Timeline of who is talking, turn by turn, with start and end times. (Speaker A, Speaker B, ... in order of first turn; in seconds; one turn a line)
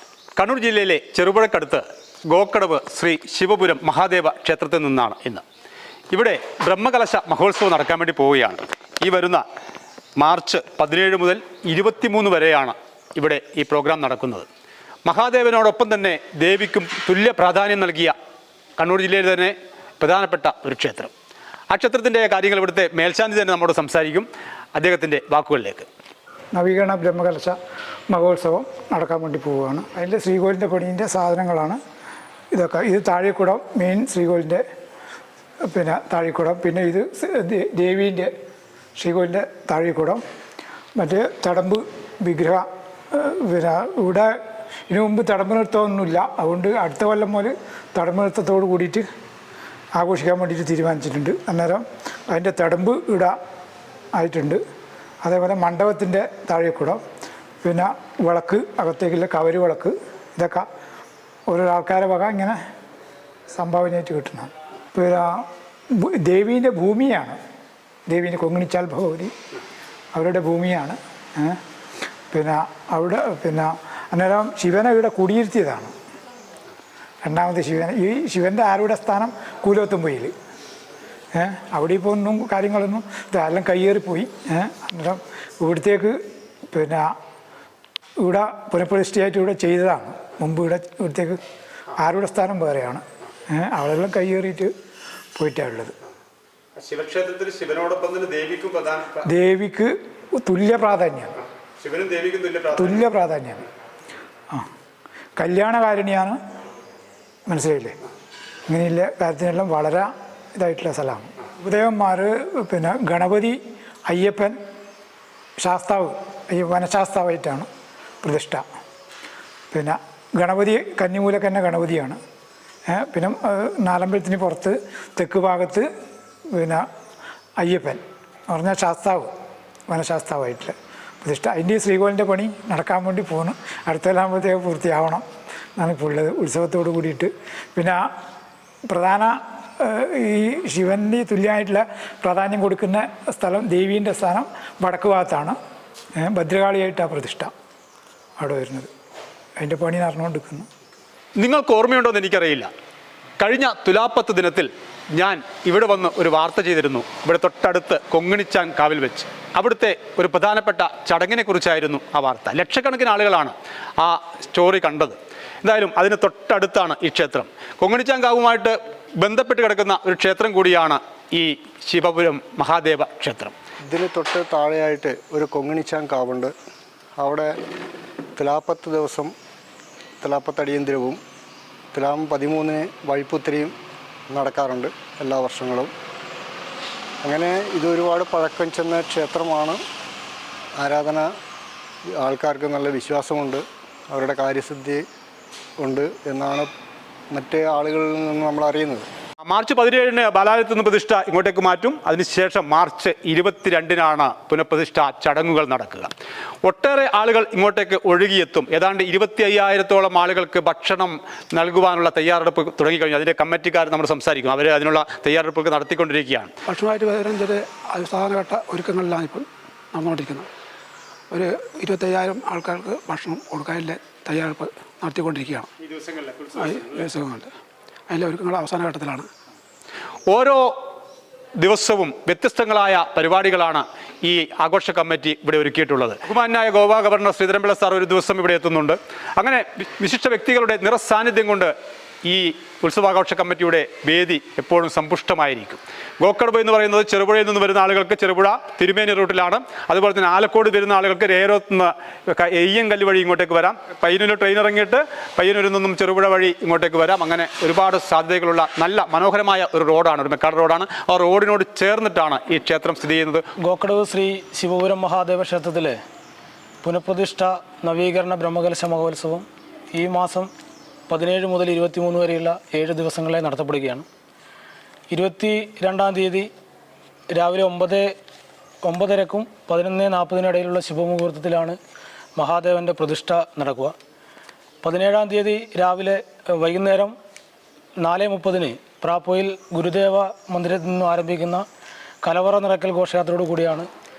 Speaker A: 0.4-5.4
Speaker A: 6.1-9.4
Speaker A: 10.2-14.5
Speaker A: 15.0-18.1
Speaker A: 18.8-21.1
Speaker A: 21.7-25.9
Speaker B: 26.5-27.6
Speaker B: 28.1-31.8
Speaker B: 32.5-34.6
Speaker B: 35.7-38.3
Speaker B: 39.0-40.2
Speaker B: 41.0-44.3
Speaker B: 44.9-49.0
Speaker B: 50.0-53.3
Speaker B: 54.1-54.6
Speaker B: 55.2-57.0
Speaker B: 57.6-60.6
Speaker B: 61.5-62.6
Speaker B: 63.5-67.4
Speaker B: 68.1-69.3
Speaker B: 70.1-71.6
Speaker B: 72.3-75.9
Speaker B: 77.2-80.3
Speaker B: 81.3-86.2
Speaker B: 86.7-87.1
Speaker B: 88.2-91.4
Speaker B: 92.0-94.7
Speaker B: 95.4-95.9
Speaker A: 96.8-99.3
Speaker B: 99.2-101.3
Speaker A: 101.8-103.0
Speaker B: 102.8-103.6
Speaker B: 105.4-106.4
Speaker B: 107.5-108.0
Speaker B: 108.7-114.6
Speaker B: 115.6-117.7
Speaker B: 118.2-118.6
Speaker B: 119.7-122.2
Speaker B: 122.9-125.9
Speaker B: 126.5-126.8
Speaker B: 127.6-129.3
Speaker B: 129.9-135.2
Speaker B: 135.8-138.1
Speaker B: 138.9-145.5
Speaker B: 146.2-147.5
Speaker B: 148.4-148.9
Speaker B: 149.6-150.7
Speaker A: 151.4-152.7
Speaker A: 153.4-173.5
Speaker C: 173.9-176.5
Speaker C: 177.2-177.5
Speaker C: 178.3-179.3
Speaker C: 180.2-181.2
Speaker C: 181.9-183.7
Speaker C: 184.3-185.9
Speaker C: 187.2-189.8
Speaker C: 190.8-191.3
Speaker C: 192.2-195.0
Speaker C: 195.8-196.7
Speaker C: 197.3-199.1
Speaker A: 199.4-206.1
Speaker A: 206.6-216.5
Speaker D: 216.7-220.5
Speaker D: 221.3-225.7
Speaker A: 225.8-227.0
Speaker D: 226.6-227.5
Speaker D: 228.1-229.3
Speaker A: 230.3-230.8
Speaker A: 231.6-263.4
Speaker E: 263.6-266.0
Speaker E: 266.8-270.5
Speaker E: 271.1-274.1
Speaker E: 275.1-276.5
Speaker E: 277.3-278.1
Speaker E: 278.8-281.8
Speaker E: 282.4-283.9
Speaker E: 284.8-287.1
Speaker E: 288.0-291.6
Speaker E: 292.2-293.9